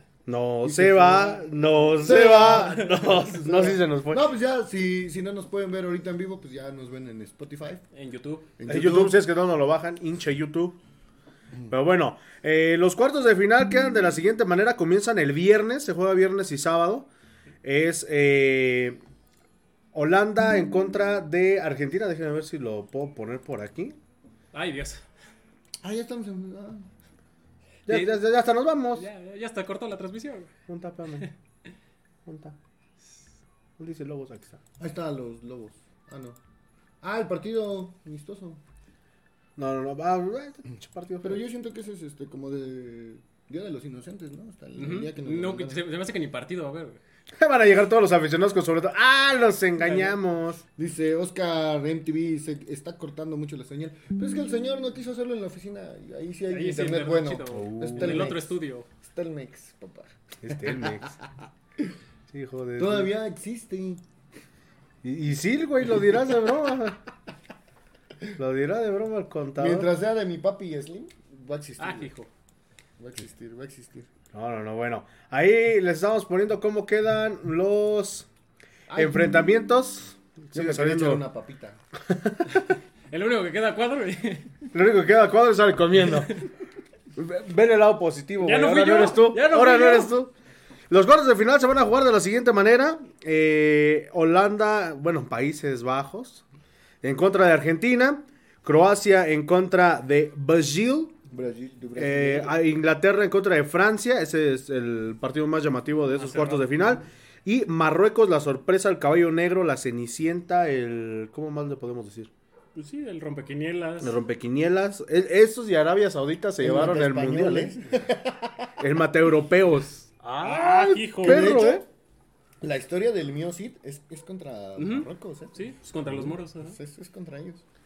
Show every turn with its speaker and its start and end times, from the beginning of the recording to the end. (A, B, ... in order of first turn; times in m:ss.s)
0:00.3-0:04.3 A
0:00.6-0:07.8 B
0:07.9-0:08.5 C
0:08.6-0:09.2 B
0:08.7-0:10.8 A
0:11.7-0:17.1 A
0:17.6-0:19.0 A
0:19.9-0:24.0 A
0:24.5-0:25.0 C
0:25.8-0:26.9 B
0:27.9-0:29.1 A
0:27.9-0:28.1 C
0:28.9-0:30.5 C
0:30.7-0:31.3 A
0:32.3-0:32.6 A
0:33.8-0:34.6 A
0:34.8-0:36.4 B
0:37.0-0:38.6 B
0:39.6-0:41.4 A
0:41.2-0:45.9 B
0:44.8-0:47.0 C
0:47.4-0:50.6 A
0:49.8-0:50.1 C
0:50.8-1:01.0 B
0:56.5-0:58.9 C
0:57.5-0:58.3 A
1:00.4-1:01.2 A
1:02.3-1:03.1 A
1:02.8-1:04.0 B
1:05.0-1:07.0 A
1:08.4-1:09.9 A
1:09.6-1:12.1 B
1:11.8-1:12.3 C
1:13.0-1:14.1 B
1:14.3-1:18.3 A
1:18.9-1:19.3 B
1:19.0-1:21.2 A
1:20.5-1:21.8 B
1:22.1-1:22.7 A
1:23.1-1:24.5 C
1:24.7-1:26.4 A
1:27.2-1:30.3 A
1:28.4-1:30.1 C
1:30.9-1:36.4 A
1:37.0-1:41.2 A
1:41.3-1:42.6 B
1:42.0-1:52.3 A
1:46.2-1:47.0 C
1:52.8-1:54.2 C
1:54.0-1:57.7 A
1:56.6-1:58.7 B
1:58.8-2:01.8 A
2:00.4-2:01.6 C
2:01.2-2:01.8 B
2:02.6-2:05.6 B
2:04.8-2:06.8 C
2:06.2-2:07.6 B